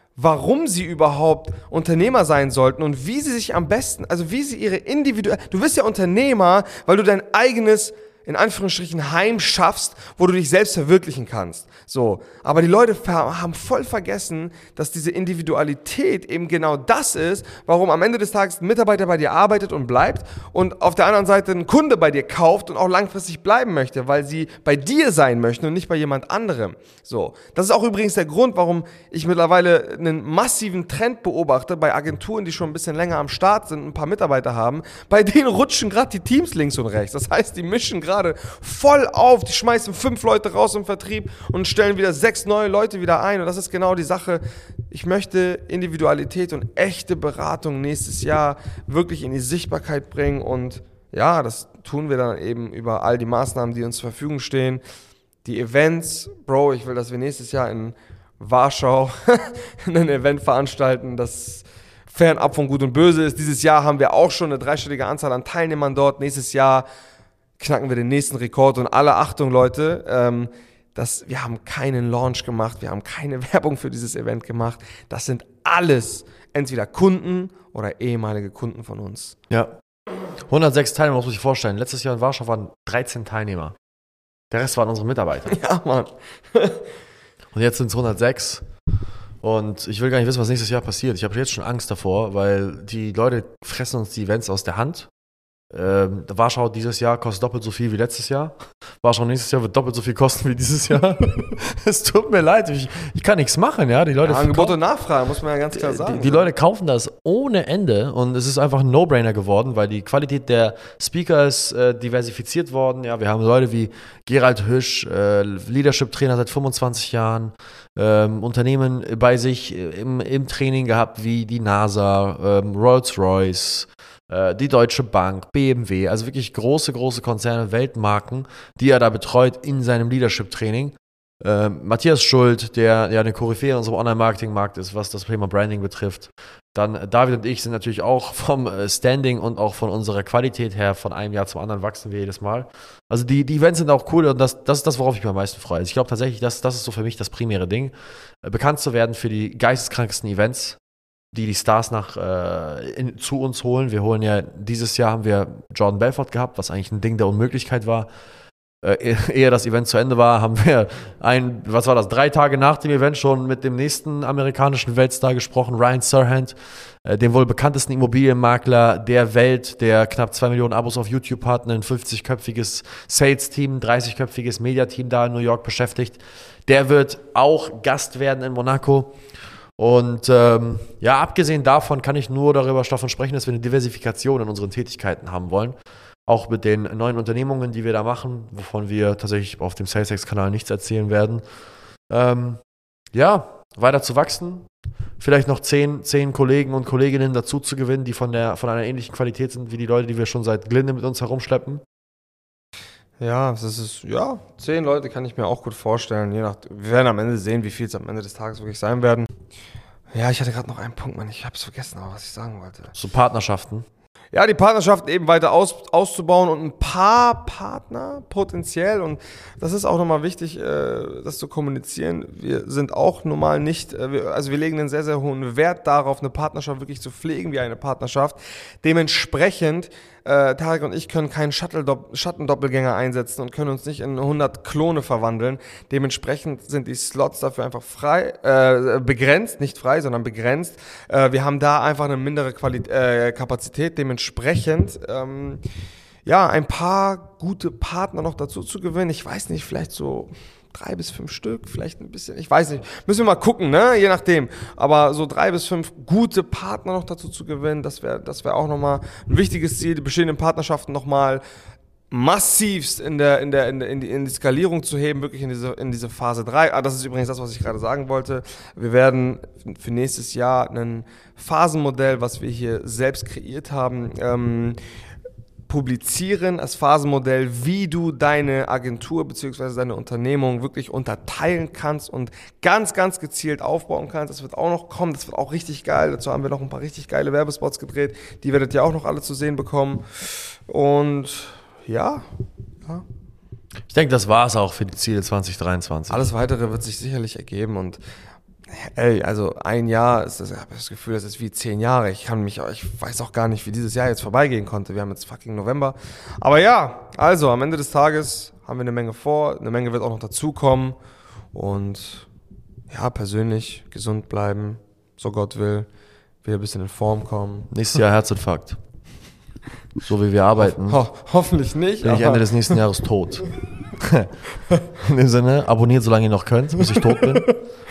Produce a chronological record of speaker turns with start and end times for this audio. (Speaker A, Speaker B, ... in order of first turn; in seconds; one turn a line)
Speaker A: 0.2-54.8
Speaker A: 55.4-66.9
Speaker A: 67.6-79.3
Speaker B: 79.5-79.8
Speaker B: 80.5-83.7
Speaker B: 84.5-85.5
Speaker A: 85.5-86.8
Speaker B: 87.5-88.6
Speaker B: 89.4-95.1
Speaker B: 95.7-104.8
Speaker A: 104.2-106.5
Speaker B: 105.7-150.8
Speaker B: 151.3-158.1
Speaker B: 158.8-179.1
Speaker B: 179.8-185.8
Speaker B: 186.3-191.4
Speaker B: 192.1-192.6
Speaker B: 193.1-194.7
Speaker B: 195.2-201.8
Speaker A: 203.2-209.3
Speaker A: 210.1-212.9
Speaker B: 212.9-213.8
Speaker A: 214.3-245.6
Speaker A: 246.2-261.4
Speaker A: 262.1-274.8
Speaker A: 275.7-292.2
Speaker B: 293.9-296.3
Speaker A: 296.1-298.0
Speaker A: 298.7-311.0
Speaker A: 311.5-312.3
Speaker A: 312.9-315.9
Speaker A: 316.4-317.7
Speaker B: 317.7-318.8
Speaker B: 320.0-321.0
Speaker A: 320.7-322.8
Speaker B: 322.0-323.5
Speaker B: 324.0-324.3
Speaker B: 325.0-327.5
Speaker A: 326.9-327.6